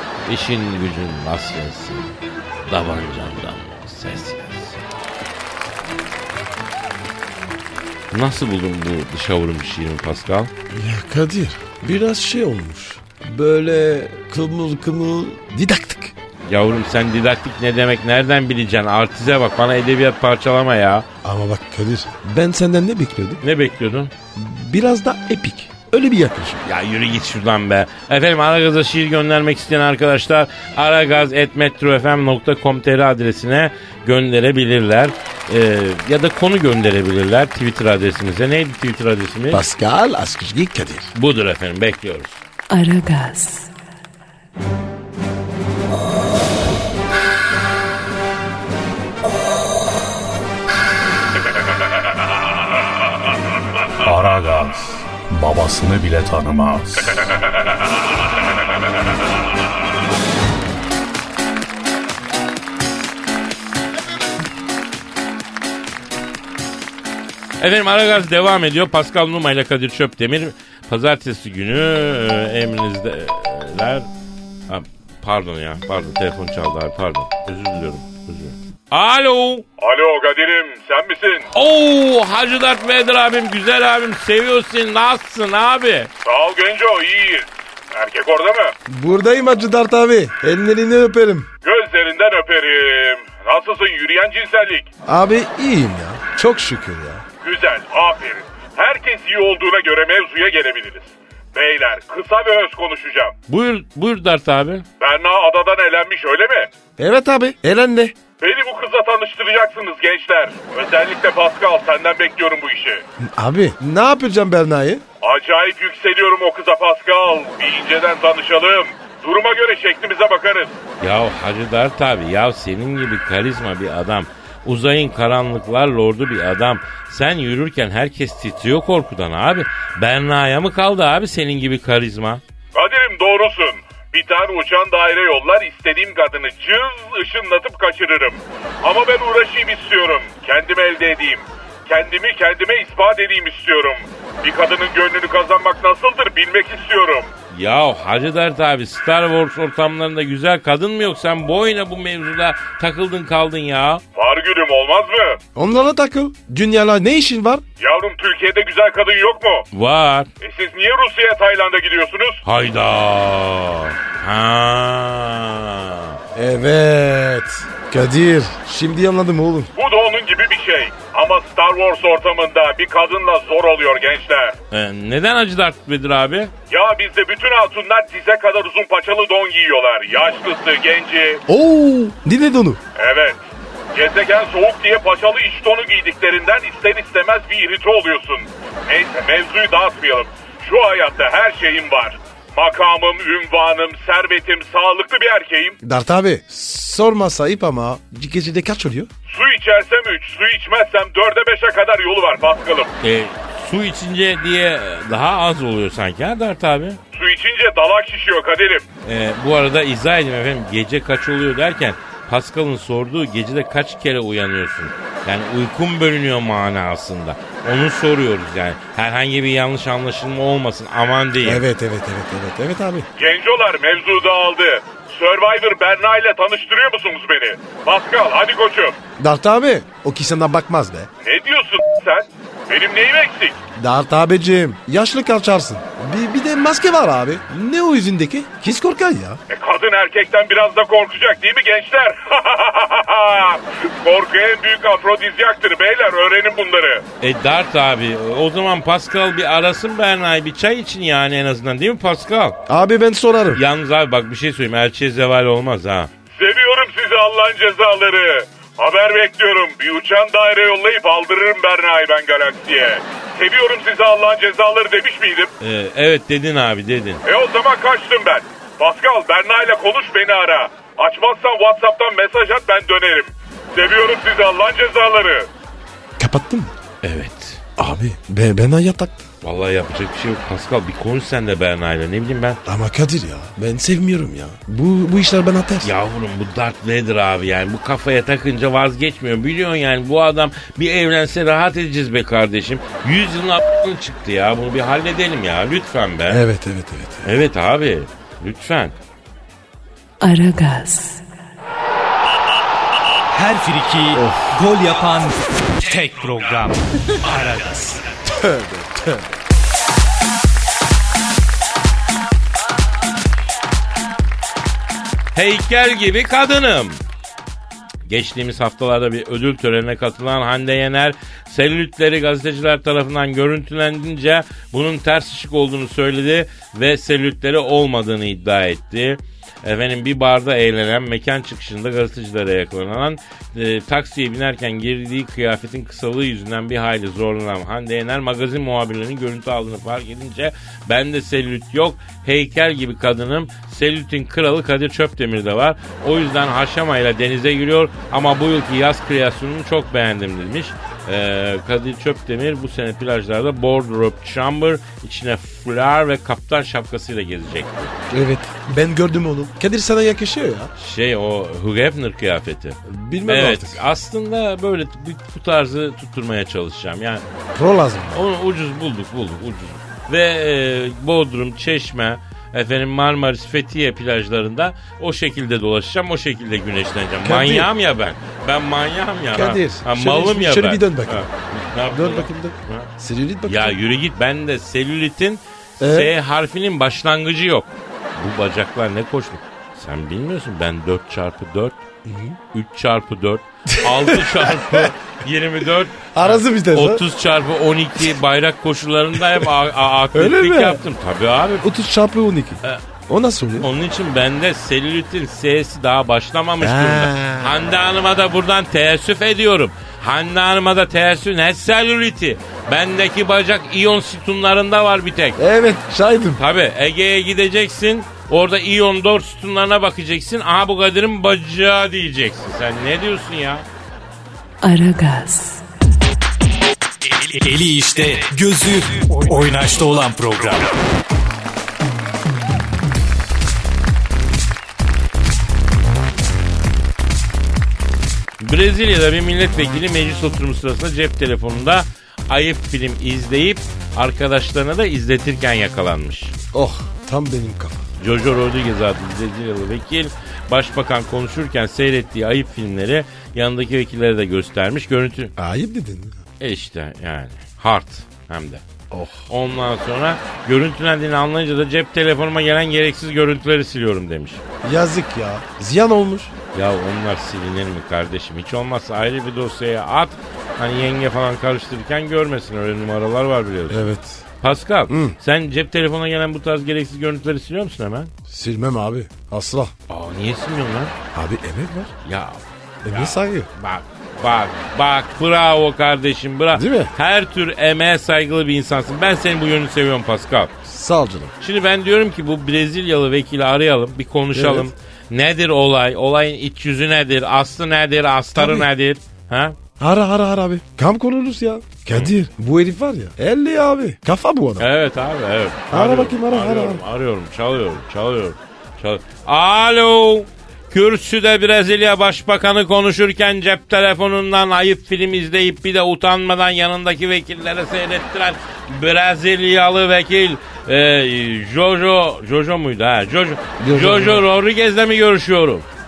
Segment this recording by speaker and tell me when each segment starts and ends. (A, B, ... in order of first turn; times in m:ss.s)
0:00.2-0:02.2 A
0:02.7-0:04.8 A
0:08.1-0:10.5 A
0:10.7-0:16.1 B
0:16.5-0:21.1 A
0:21.2-0:23.4 B
0:23.4-0:24.1 A
0:24.4-0:26.7 B
0:26.6-0:39.6 A
0:39.5-0:41.1 B
0:41.2-0:42.4 A
0:42.7-0:43.7 C
0:54.0-0:57.1 D
1:07.6-1:14.1 A
1:14.7-1:19.6 A
1:19.8-1:21.5 E
1:21.6-1:26.1 A
1:26.2-1:28.7 E
1:28.9-1:31.5 B
1:31.6-1:34.9 E
1:35.0-1:37.2 B
1:37.4-1:43.4 E
1:43.5-1:44.8 A
1:45.0-1:46.7 E
1:47.0-1:48.2 B
1:48.4-1:53.0 E
1:53.2-1:55.0 B
1:55.2-2:00.7 E
2:01.0-2:12.4 A
2:12.7-2:27.3 E
2:27.5-2:34.0 A
2:34.2-2:35.4 E
2:35.6-2:37.6 B
2:37.8-2:39.7 E
2:39.7-2:40.3 A
2:40.4-2:42.4 E
2:42.4-2:46.2 A
2:46.4-2:49.7 B
2:49.8-2:54.6 E
2:54.7-2:56.5 A
2:56.7-3:01.4 E
3:01.5-3:02.8 B
3:03.0-3:03.4 E
3:03.9-3:15.8 E
3:15.8-3:19.1 B
3:19.3-3:22.9 E
3:23.0-3:27.0 A
3:27.1-3:28.8 E
3:29.0-3:41.6 A
3:41.4-3:43.1 B
3:43.2-3:49.0 E
3:49.2-3:51.1 B
3:51.2-3:53.6 E
3:53.8-3:59.4 B
3:59.5-4:07.0 E
4:07.2-4:12.6 A
4:12.7-4:13.6 B
4:13.6-4:16.1 A
4:16.4-4:25.5 E
4:25.6-4:27.2 A
4:27.3-4:35.5 E
4:36.2-4:36.7 B
4:37.0-4:37.6 A
4:37.8-4:39.2 B
4:39.4-4:42.6 A
4:42.7-4:45.9 B
4:45.8-4:56.4 A
4:56.3-4:57.3 B
4:57.2-4:59.0 A
5:00.2-5:01.2 C
5:03.3-5:08.0 F
5:04.1-5:04.6 B
5:08.3-5:09.3 B
5:15.3-5:17.0 A
5:18.1-5:57.9 A
5:58.1-6:00.7 B
6:00.8-6:07.2 A
6:02.8-6:03.8 B
6:07.5-6:08.2 B
6:08.1-6:22.9 A
6:17.2-6:17.7 B
6:19.3-6:21.3 B
6:21.9-6:23.8 B
6:23.5-6:31.8 A
6:25.8-6:26.1 B
6:32.0-6:32.4 B
6:32.5-6:41.7 A
6:33.7-6:34.9 B
6:36.1-6:37.0 B
6:40.1-6:40.8 B
6:41.6-6:43.7 B
6:43.6-6:55.4 A
6:46.6-6:47.6 B
6:55.4-6:56.4 B
6:56.4-7:03.7 A
7:04.6-7:05.6 C
7:07.0-7:10.8 F
7:18.4-7:26.3 A
7:26.5-7:27.9 B
7:28.0-7:35.3 A
7:35.4-7:36.2 B
7:36.4-7:38.6 A
7:38.9-7:39.3 B
7:39.3-7:44.4 A
7:44.6-7:46.3 B
7:46.5-7:53.9 A
7:53.7-7:54.2 B
7:54.4-7:58.1 A
7:54.9-7:55.2 B
7:58.3-7:59.7 B
7:59.9-8:00.9 A
8:01.1-8:01.9 B
8:02.0-8:10.5 A
8:02.8-8:03.5 B
8:06.5-8:06.9 B
8:10.6-8:11.3 B
8:11.4-8:19.6 A
8:14.3-8:14.7 B
8:18.3-8:18.7 B
8:19.8-8:24.7 B
8:24.6-8:45.7 A
8:25.7-8:26.8 B
8:43.6-8:44.2 B